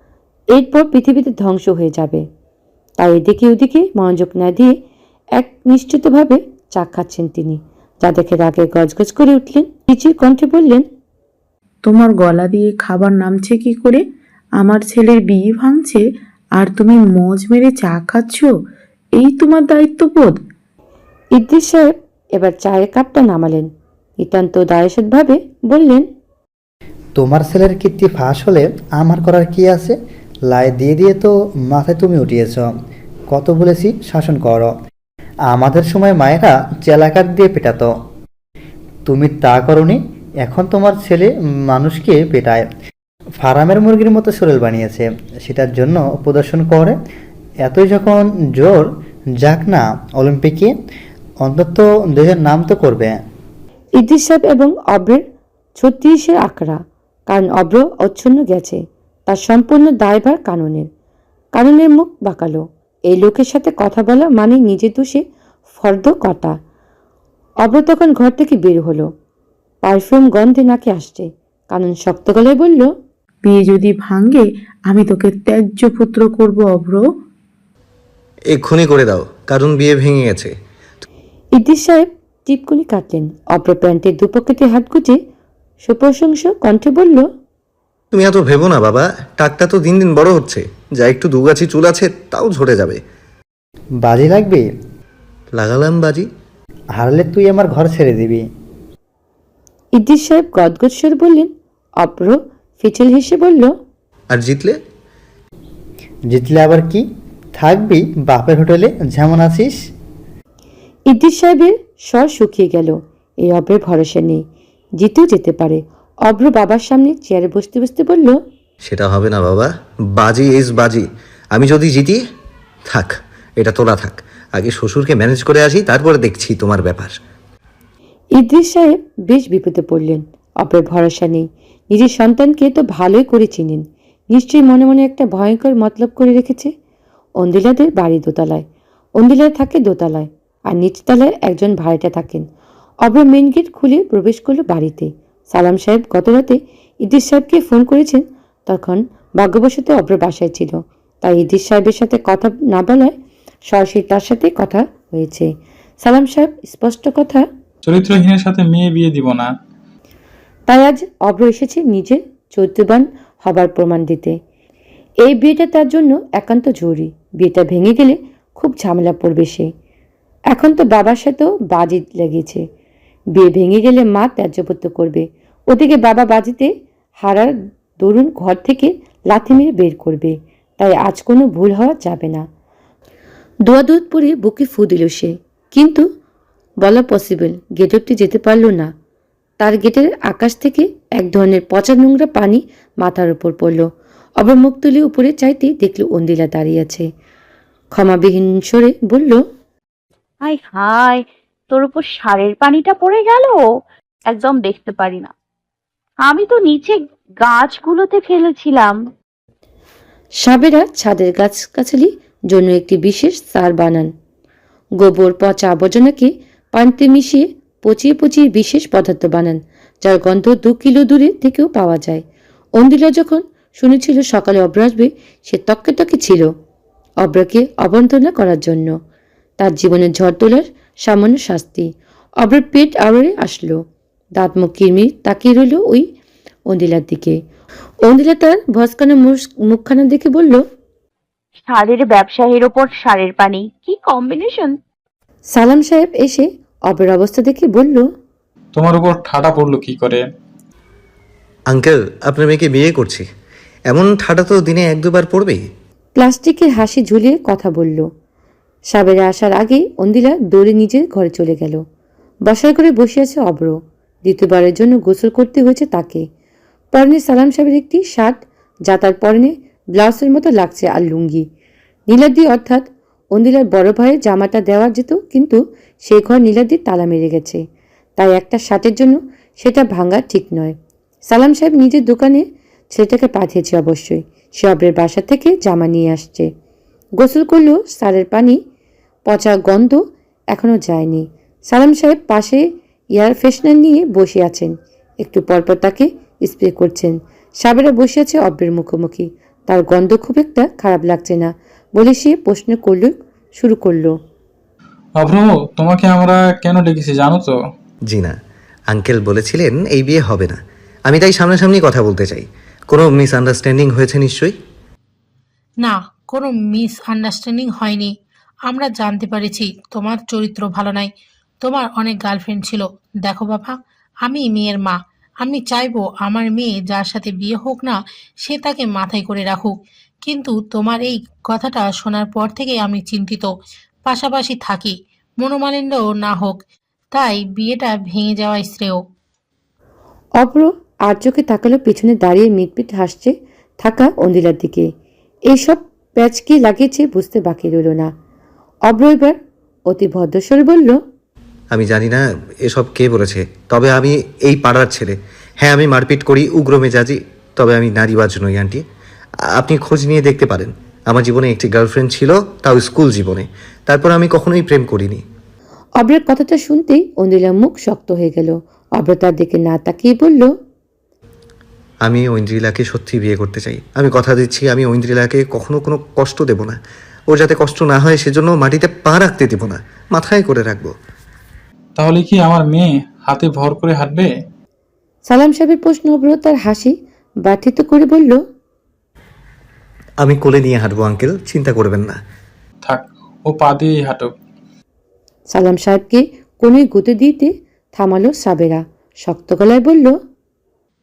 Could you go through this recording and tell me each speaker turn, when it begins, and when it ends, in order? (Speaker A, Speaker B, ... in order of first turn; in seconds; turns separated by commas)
Speaker A: 0.5-2.2, Speaker A: 3.0-4.7, Speaker A: 5.4-10.8, Speaker B: 11.9-13.8, Speaker B: 14.6-15.9, Speaker B: 16.6-18.4, Speaker B: 19.2-20.3, Speaker A: 21.4-23.7, Speaker A: 24.2-26.0, Speaker C: 27.2-29.9, Speaker C: 30.5-32.7, Speaker C: 33.3-34.7, Speaker C: 35.5-37.9, Speaker C: 39.1-42.6, Speaker C: 43.4-47.0, Speaker C: 47.6-48.8, Speaker C: 49.4-50.7, Speaker C: 51.4-53.1, Speaker A: 54.0-55.2, Speaker A: 55.8-60.9, Speaker A: 61.5-65.2, Speaker A: 65.8-66.5, Speaker A: 67.6-69.1, Speaker A: 69.8-72.9, Speaker B: 73.5-77.0, Speaker D: 78.5-80.5, Speaker A: 81.5-85.2, Speaker A: 85.8-87.2, Speaker D: 88.1-93.0, Speaker C: 94.0-94.6, Speaker D: 95.5-96.3, Speaker C: 97.0-98.4, Speaker A: 100.0-101.5, Speaker A: 102.0-103.7, Speaker D: 104.3-104.8, Speaker C: 106.3-107.0, Speaker C: 107.6-109.7, Speaker A: 111.1-114.4, Speaker A: 115.0-118.4, Speaker D: 118.8-122.2, Speaker D: 122.9-127.2, Speaker A: 128.4-136.7, Speaker A: 137.4-138.6, Speaker A: 139.2-142.4, Speaker A: 143.0-153.1, Speaker A: 153.7-155.5, Speaker A: 156.0-157.4, Speaker E: 157.8-159.5, Speaker A: 160.7-164.3, Speaker A: 165.2-169.7, Speaker A: 170.5-172.6, Speaker A: 173.3-176.7, Speaker A: 177.2-182.4, Speaker A: 183.7-186.0, Speaker A: 186.8-188.9, Speaker A: 189.6-193.8, Speaker A: 194.4-197.0, Speaker A: 197.9-199.4, Speaker F: 200.4-203.7, Speaker F: 204.3-205.3, Speaker F: 206.2-209.0, Speaker A: 210.4-214.1, Speaker A: 215.0-222.2, Speaker A: 222.8-226.5, Speaker A: 227.2-228.9, Speaker A: 229.6-231.9, Speaker A: 232.4-233.8, Speaker A: 234.4-236.1, Speaker A: 236.7-237.4, Speaker A: 238.0-240.6, Speaker F: 241.7-244.7, Speaker A: 245.5-248.0, Speaker E: 248.7-250.2, Speaker D: 251.7-253.2, Speaker D: 253.9-255.6, Speaker A: 256.2-258.1, Speaker A: 258.9-261.8, Speaker A: 262.5-263.7, Speaker A: 264.2-266.2, Speaker A: 266.9-268.4, Speaker A: 268.9-271.4, Speaker A: 272.1-277.6, Speaker A: 278.2-280.7, Speaker A: 281.3-286.5, Speaker A: 287.2-288.6, Speaker A: 289.3-290.0, Speaker A: 290.5-292.6, Speaker A: 293.1-294.7, Speaker A: 295.2-304.1, Speaker E: 305.2-307.5, Speaker D: 308.1-308.3, Speaker D: 308.9-314.5, Speaker G: 315.8-318.1, Speaker G: 318.7-321.1, Speaker G: 321.6-323.7, Speaker G: 324.2-329.7, Speaker G: 330.2-333.5, Speaker G: 334.1-336.6, Speaker G: 337.1-339.0, Speaker A: 340.4-344.9, Speaker A: 345.5-348.1, Speaker A: 348.9-349.4, Speaker A: 349.9-351.0, Speaker D: 351.7-358.8, Speaker D: 359.6-365.2, Speaker A: 366.0-370.5, Speaker D: 372.0-376.8, Speaker D: 377.3-380.9, Speaker E: 381.9-384.3, Speaker A: 385.3-388.4, Speaker D: 390.2-392.2, Speaker E: 392.8-394.3, Speaker A: 395.5-400.2